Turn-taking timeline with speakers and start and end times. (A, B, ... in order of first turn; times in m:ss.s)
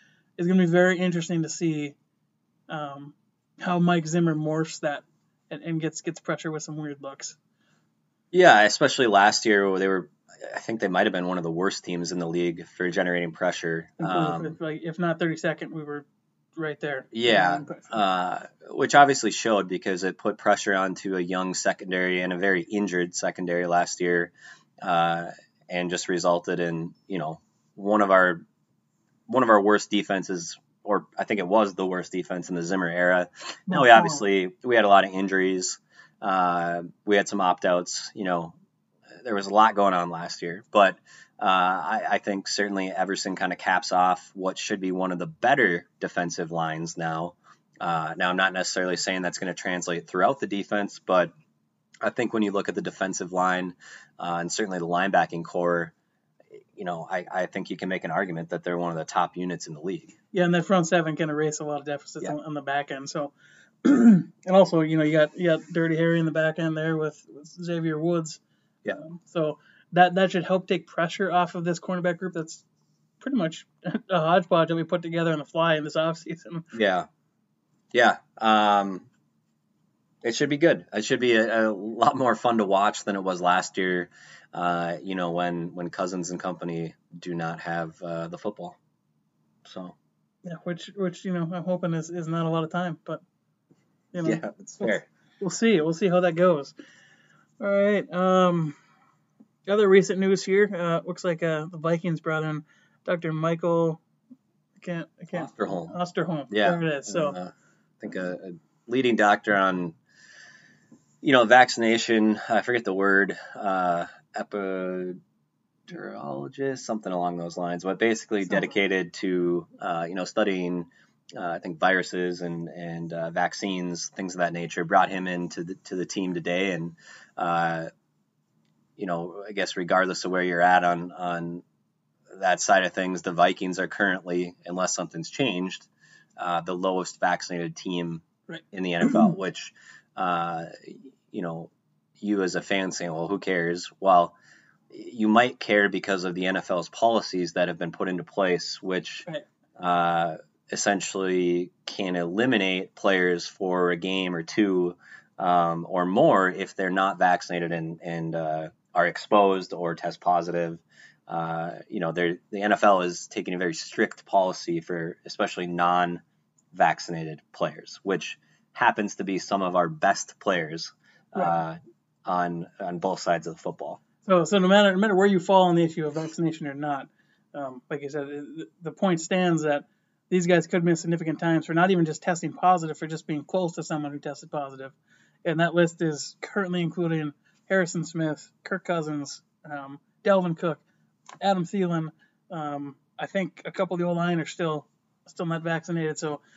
0:00.4-0:02.0 A
0:02.7-0:07.4 A
0:08.3-0:14.6 B
0:14.0-0:18.0 A
0:17.1-0:28.4 B
0:29.3-0:38.5 B
0:33.7-0:34.2 A
0:39.2-0:51.3 B
0:52.0-0:55.9 B
0:56.7-1:00.1 B
1:00.3-1:08.4 A
1:08.9-1:12.6 A
1:13.2-1:16.7 A
1:16.7-1:17.1 B
1:17.9-1:19.0 B
1:20.2-1:28.8 B
1:29.6-1:29.9 B
1:30.4-1:33.2 A
1:34.1-1:36.7 A
1:34.2-1:35.0 B
1:37.6-1:38.8 A
1:39.7-1:44.0 A
1:44.8-1:47.3 A
1:45.3-1:45.9 B
1:46.5-1:49.9 B
1:51.2-1:55.2 B
1:55.9-2:07.9 B
2:09.0-2:11.6 B
2:12.3-2:24.3 B
2:18.5-2:19.3 A
2:24.9-2:29.3 B
2:29.8-2:46.2 B
2:46.7-2:54.0 B
2:54.2-3:10.8 A
3:11.4-3:16.4 A